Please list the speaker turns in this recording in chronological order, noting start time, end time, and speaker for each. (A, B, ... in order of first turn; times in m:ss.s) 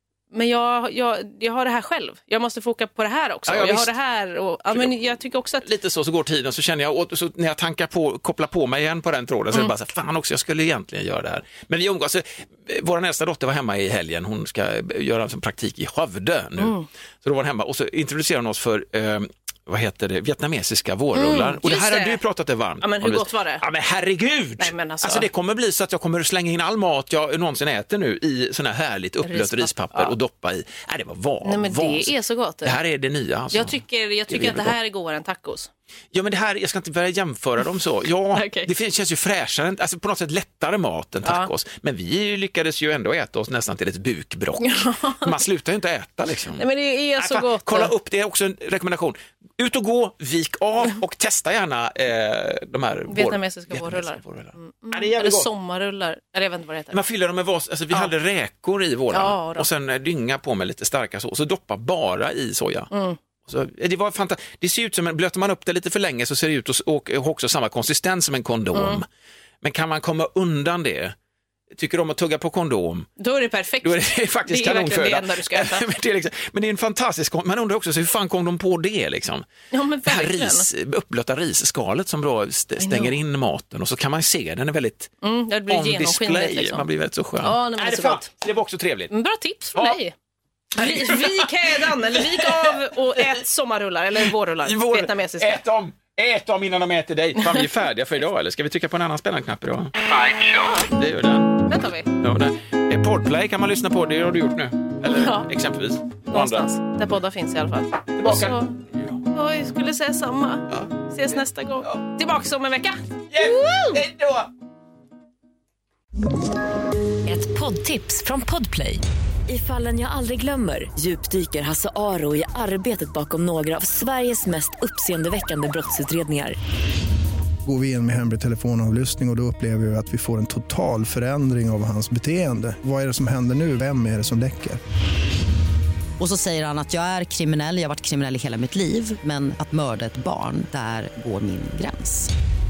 0:00.3-0:05.7 A
0:03.5-0:03.9 B
0:04.7-0:34.8 B
0:16.6-0:16.8 A
0:21.1-0:22.2 A
0:22.8-0:23.6 A
0:24.6-0:25.3 A
0:29.2-0:30.2 A
0:31.4-0:32.8 A
0:33.5-0:35.7 A
0:36.1-0:46.6 B
0:38.3-0:38.7 A
0:41.2-0:41.5 A
0:44.6-0:45.4 A
0:46.6-0:47.9 A
0:47.2-0:55.5 B
0:53.1-0:57.0 A
0:56.9-1:02.9 B
0:59.1-0:59.7 A
1:02.9-1:03.2 A
1:03.4-1:09.1 B
1:08.7-1:09.0 A
1:09.6-1:11.1 B
1:11.7-1:13.1 B
1:13.2-1:15.9 A
1:13.8-1:19.5 B
1:19.7-1:20.7 A
1:20.1-1:25.1 B
1:22.8-1:23.1 A
1:25.2-1:26.8 A
1:25.7-1:29.1 B
1:27.4-1:28.3 A
1:29.1-1:30.1 A
1:30.8-1:33.3 B
1:30.8-1:35.6 A
1:34.6-1:41.7 B
1:37.4-1:37.7 A
1:41.7-1:42.1 A
1:42.2-1:46.7 B
1:45.1-1:45.5 A
1:46.3-1:48.7 A
1:48.2-1:49.2 B
1:49.2-1:54.0 A
1:50.7-1:50.9 B
1:53.3-1:54.5 B
1:57.3-2:06.6 C
2:07.6-2:14.8 D
2:16.2-2:22.3 E